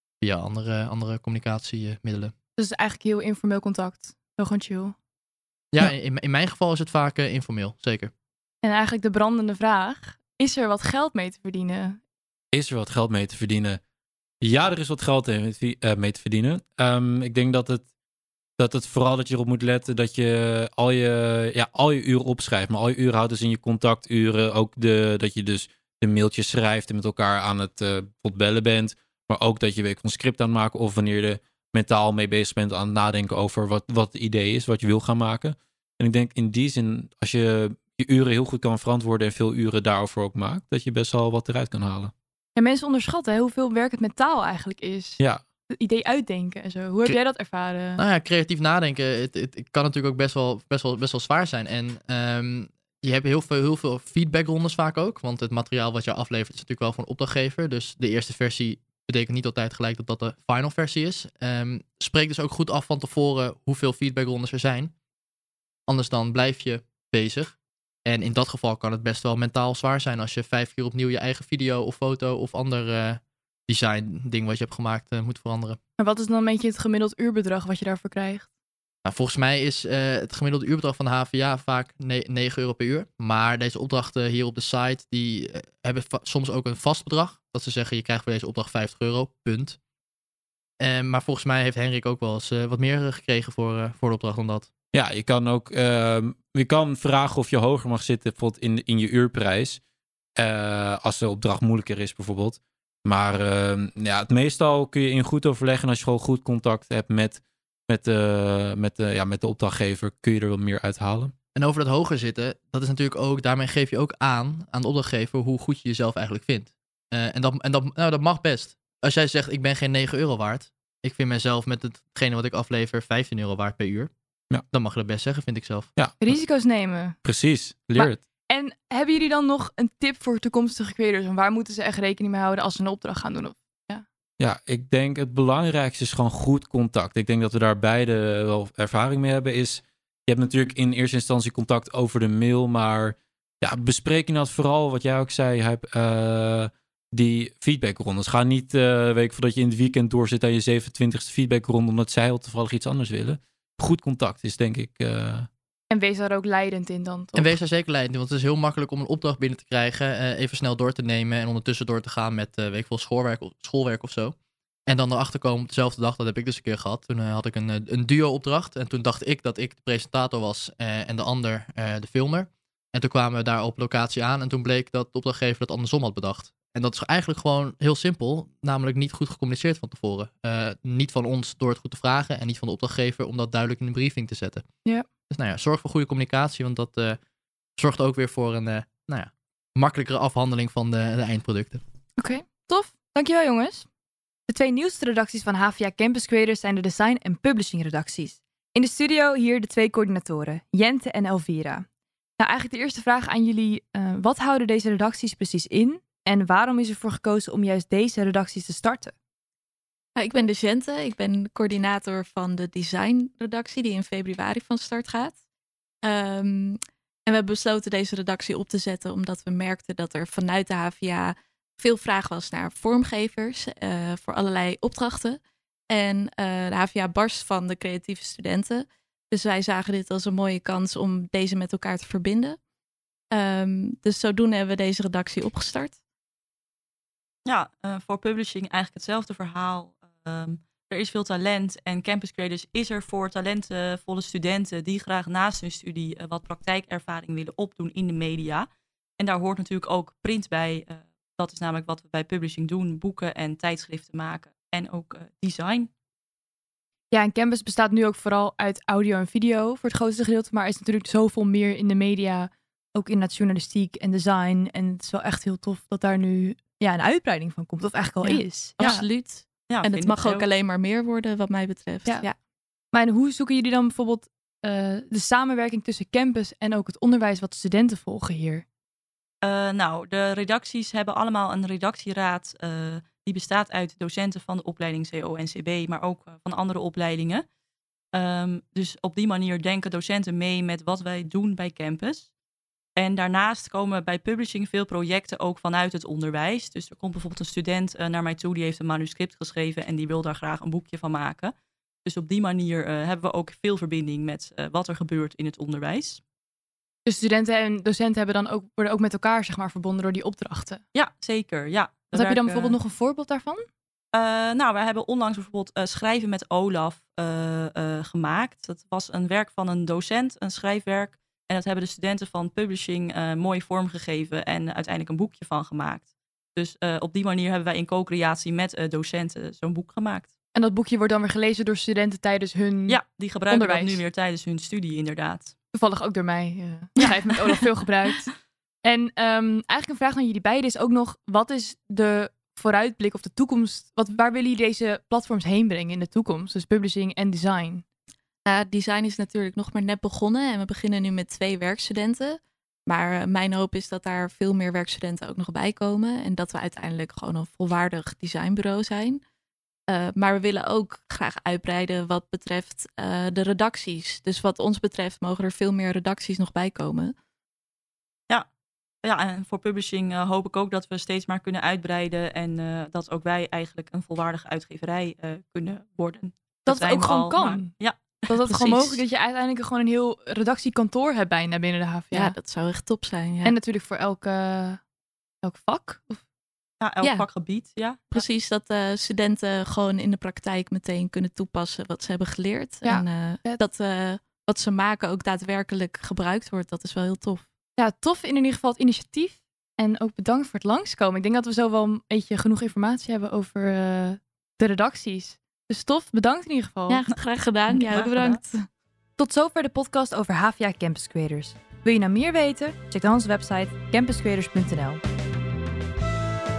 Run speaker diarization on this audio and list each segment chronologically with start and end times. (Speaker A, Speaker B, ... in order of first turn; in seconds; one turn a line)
Speaker A: 0.2-2.3
Speaker B: 2.6-4.9
Speaker A: 5.7-8.1
Speaker B: 8.6-12.0
Speaker C: 12.5-13.8
Speaker C: 14.4-17.8
Speaker C: 18.6-42.1
Speaker B: 42.5-48.0
Speaker A: 48.0-64.9
Speaker A: 65.9-67.5
Speaker A: 68.0-75.8
Speaker B: 76.0-78.5
Speaker A: 79.0-89.8
Speaker A: 90.8-94.7
Speaker C: 94.9-99.8
Speaker C: 100.4-111.3
Speaker A: 111.5-124.1
Speaker A: 124.7-125.9
Speaker C: 126.0-126.3
Speaker B: 126.2-127.2
Speaker C: 127.2-128.2
Speaker B: 127.9-134.0
Speaker C: 134.4-155.5
Speaker B: 155.9-157.6
Speaker A: 157.3-164.3
Speaker A: 164.9-184.6
Speaker A: 185.3-187.2
Speaker A: 187.8-191.8
Speaker B: 192.2-193.9
Speaker B: 194.5-201.8
Speaker B: 202.4-209.1
Speaker D: 210.2-215.4
Speaker D: 216.0-232.6
Speaker D: 233.3-236.0
Speaker E: 237.4-255.9
Speaker B: 257.1-268.8
Speaker D: 268.2-272.3
Speaker E: 268.8-269.1
Speaker E: 269.7-270.5
Speaker B: 272.9-278.6
Speaker E: 279.4-287.4
Speaker E: 288.1-292.3
Speaker E: 292.9-306.2
Speaker B: 307.0-310.8
Speaker E: 310.9-312.8
Speaker B: 312.1-313.6
Speaker E: 314.1-330.3
Speaker B: 330.5-333.0
Speaker E: 332.9-335.5
Speaker B: 333.5-334.0
Speaker B: 335.7-338.3
Speaker E: 337.0-337.5
Speaker B: 338.8-347.8
Speaker D: 348.4-359.2
Speaker D: 359.9-367.1
Speaker E: 369.0-379.0
Speaker B: 376.6-377.7
Speaker B: 378.3-382.4
Speaker D: 382.1-383.5
Speaker B: 383.4-384.8
Speaker B: 385.4-386.2
Speaker E: 386.8-388.3
Speaker D: 387.0-387.3
Speaker D: 388.1-397.5
Speaker B: 392.8-393.6
Speaker B: 397.8-407.0
Speaker D: 406.9-408.6
Speaker E: 407.7-408.4
Speaker B: 409.2-415.0